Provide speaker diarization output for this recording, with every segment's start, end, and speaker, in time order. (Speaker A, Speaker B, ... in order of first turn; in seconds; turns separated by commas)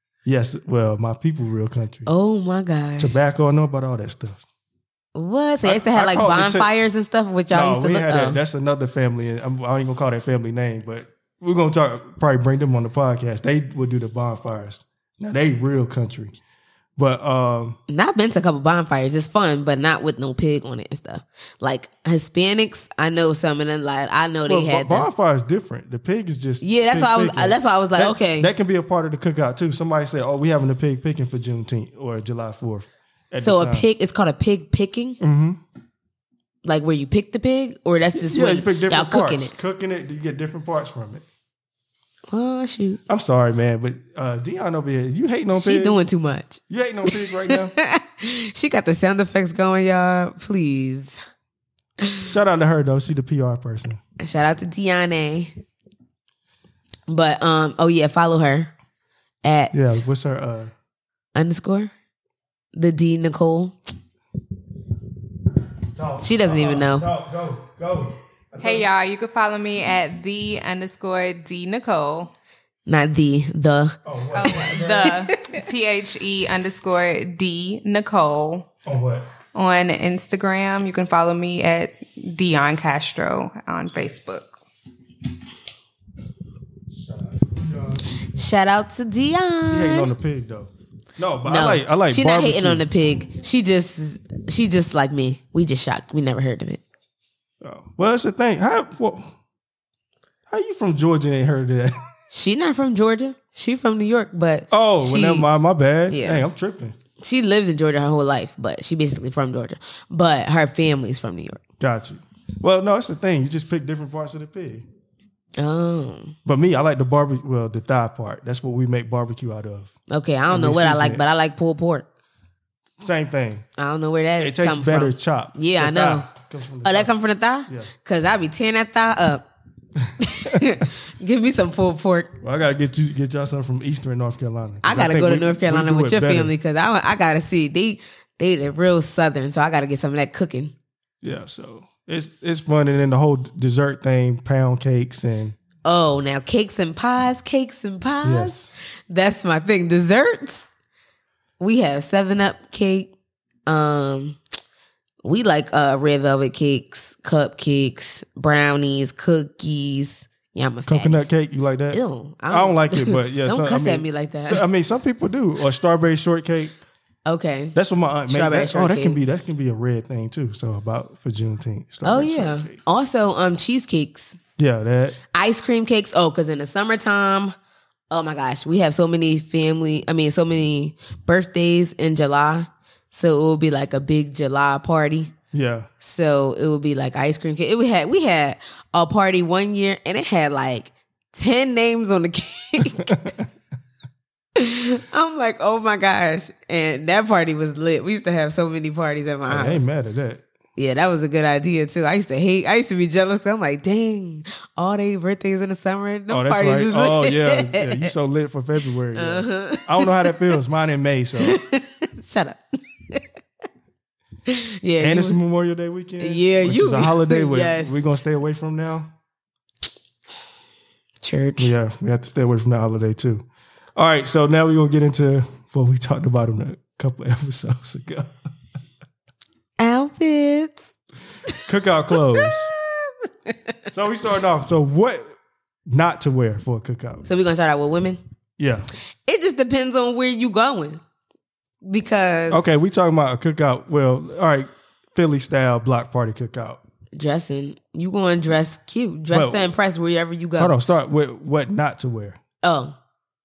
Speaker A: 0.2-2.1, Speaker B: 2.1-3.1, Speaker A: 3.0-4.4, Speaker B: 5.1-8.4, Speaker A: 5.6-6.7, Speaker A: 7.5-16.3, Speaker A: 17.0-17.8, Speaker B: 17.9-25.1, Speaker A: 24.5-33.9, Speaker B: 26.6-28.5, Speaker B: 33.4-35.2, Speaker A: 35.2-35.6, Speaker B: 36.6-39.5, Speaker A: 38.1-41.2, Speaker B: 42.3-43.0, Speaker A: 43.1-46.0, Speaker B: 45.5-51.2, Speaker A: 46.7-47.7, Speaker A: 52.2-54.0, Speaker B: 54.2-55.5, Speaker B: 57.1-58.7, Speaker B: 59.4-60.0, Speaker A: 59.7-60.7, Speaker B: 61.3-61.9, Speaker B: 62.7-63.7, Speaker A: 65.9-68.9, Speaker B: 66.2-67.1, Speaker C: 68.6-72.3, Speaker B: 72.9-74.0, Speaker A: 74.0-75.2, Speaker C: 74.3-78.7, Speaker B: 74.6-75.5, Speaker A: 78.8-79.2, Speaker C: 79.5-84.5, Speaker A: 87.3-88.1, Speaker B: 88.2-90.1, Speaker A: 89.7-92.8, Speaker B: 91.4-96.8, Speaker A: 97.6-99.3, Speaker A: 100.5-102.0, Speaker B: 102.3-105.5, Speaker A: 104.7-107.0, Speaker B: 106.1-106.4, Speaker B: 107.2-111.6, Speaker A: 111.8-114.8, Speaker B: 115.6-116.3, Speaker A: 116.5-119.9, Speaker B: 120.1-122.1, Speaker A: 120.5-121.2, Speaker A: 123.0-123.6, Speaker B: 123.8-126.3, Speaker A: 124.4-127.1, Speaker B: 126.8-129.4, Speaker B: 130.2-132.3, Speaker A: 132.4-136.5, Speaker B: 134.8-140.7, Speaker A: 141.2-145.6, Speaker B: 145.8-148.6, Speaker A: 148.2-148.7, Speaker B: 149.1-150.7, Speaker B: 151.6-153.1, Speaker B: 153.7-154.4, Speaker B: 155.2-161.2, Speaker A: 160.8-166.7, Speaker B: 161.9-164.6, Speaker B: 167.2-167.8, Speaker A: 167.7-172.8, Speaker B: 168.3-169.2, Speaker B: 172.0-174.4, Speaker A: 174.6-175.2, Speaker B: 175.3-177.5, Speaker B: 178.1-185.3, Speaker A: 185.5-185.9, Speaker B: 186.0-193.3, Speaker A: 192.9-193.5, Speaker B: 194.6-199.8, Speaker A: 199.5-200.4, Speaker B: 200.8-208.1, Speaker A: 206.3-211.6, Speaker B: 209.1-210.4, Speaker B: 211.4-213.2, Speaker B: 214.5-215.4, Speaker A: 215.0-219.1, Speaker B: 216.2-218.0, Speaker B: 221.2-221.7, Speaker A: 221.6-223.4, Speaker A: 223.9-228.3, Speaker B: 229.8-230.9, Speaker A: 231.7-232.7, Speaker B: 232.1-233.5, Speaker A: 233.9-235.3, Speaker A: 235.9-237.2, Speaker B: 237.2-238.2, Speaker A: 238.6-238.9, Speaker B: 239.3-241.0, Speaker B: 241.8-242.7, Speaker A: 242.5-246.8, Speaker B: 247.1-250.7, Speaker A: 249.3-249.7, Speaker A: 250.6-252.4, Speaker B: 252.6-252.9